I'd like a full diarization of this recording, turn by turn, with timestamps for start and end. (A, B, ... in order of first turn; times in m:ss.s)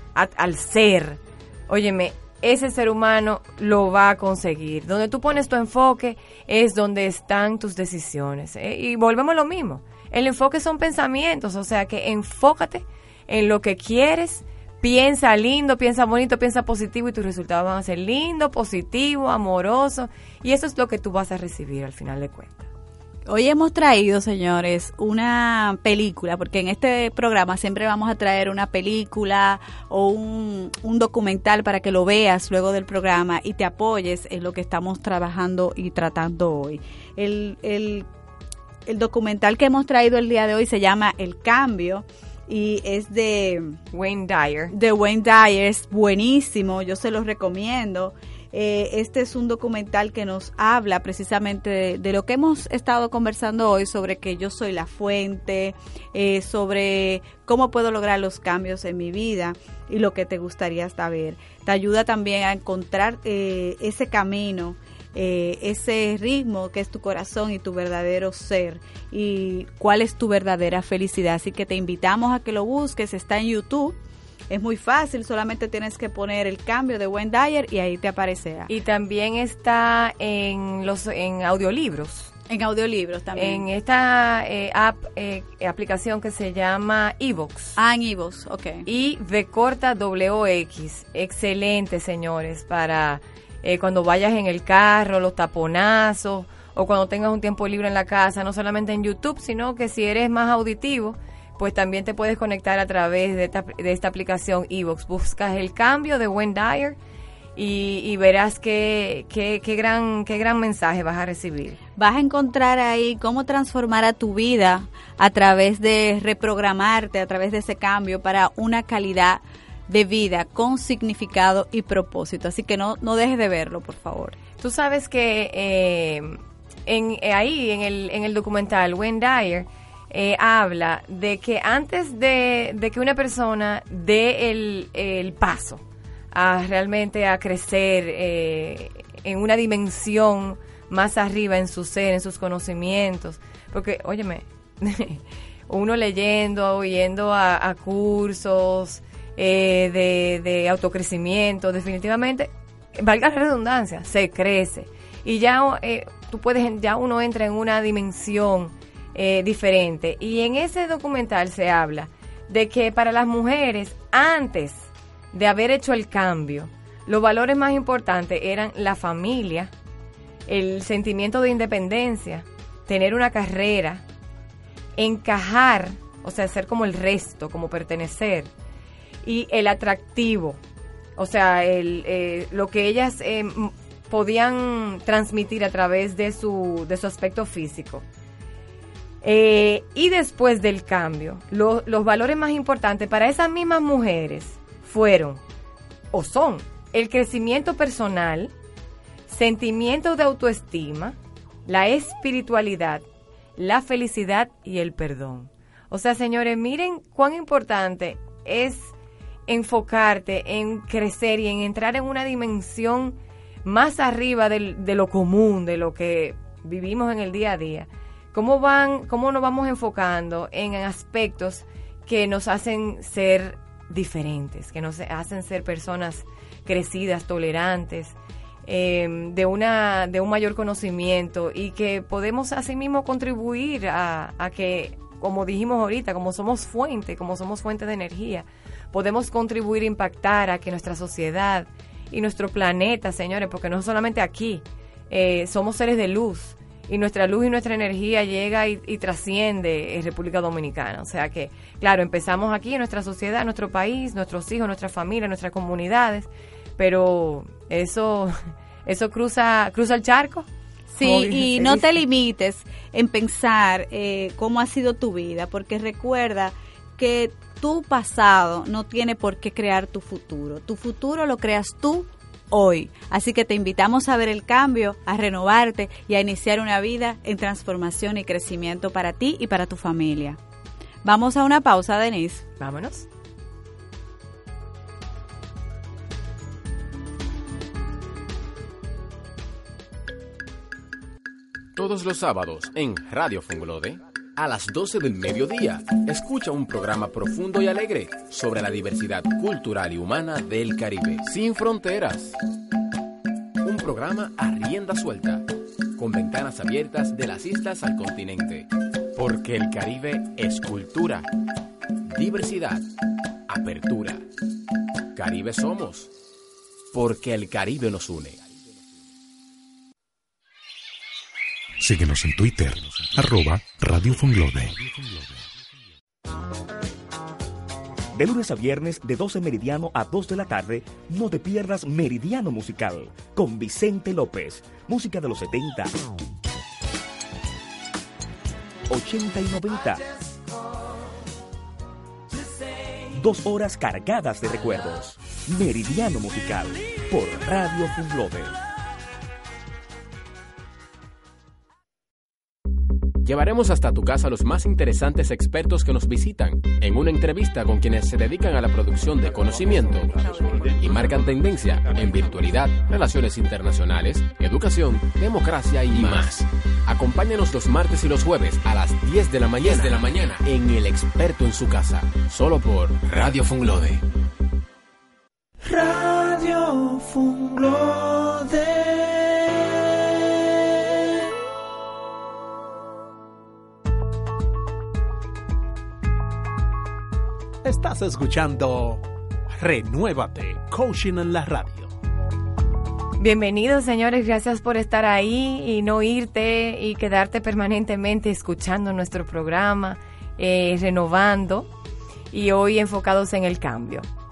0:00.2-0:22.7 A
0:23.3-0:38.1 B
0:38.9-0:43.8 B
0:43.9-0:44.7 A
0:44.7-1:14.0 B
1:14.5-1:18.7 B
1:18.7-1:22.3 A
1:22.5-1:23.6 B
1:23.4-1:27.8 A
1:27.8-1:28.9 B
1:28.9-1:47.0 A
1:47.6-1:51.8 A
1:52.0-2:04.4 B
2:04.6-2:49.7 A
2:50.5-2:54.0 A
2:55.0-2:58.5 A
2:59.2-3:00.6 A
3:01.2-3:08.0 A
3:09.2-3:15.4 A
3:16.1-3:18.5 A
3:19.3-3:23.0 A
3:23.6-3:28.9 A
3:29.5-4:20.5 A
4:20.9-4:40.4 B
4:21.0-4:21.9 A
4:41.0-4:42.4 B
4:42.6-4:43.1 A
4:51.8-5:02.4 C
5:03.6-5:11.3 C
5:12.0-5:12.9 C
5:13.5-5:14.2 C
5:15.1-5:16.1 C
5:16.9-5:18.4 C
5:21.8-5:25.5 D
5:28.2-5:35.9 E
5:38.9-5:40.1 E
5:43.1-5:48.6 E
5:53.2-6:14.0 C
6:15.6-6:20.9 F
6:27.6-6:29.0 G
6:29.6-6:31.9 G
6:33.2-6:41.7 A
6:42.3-6:44.1 A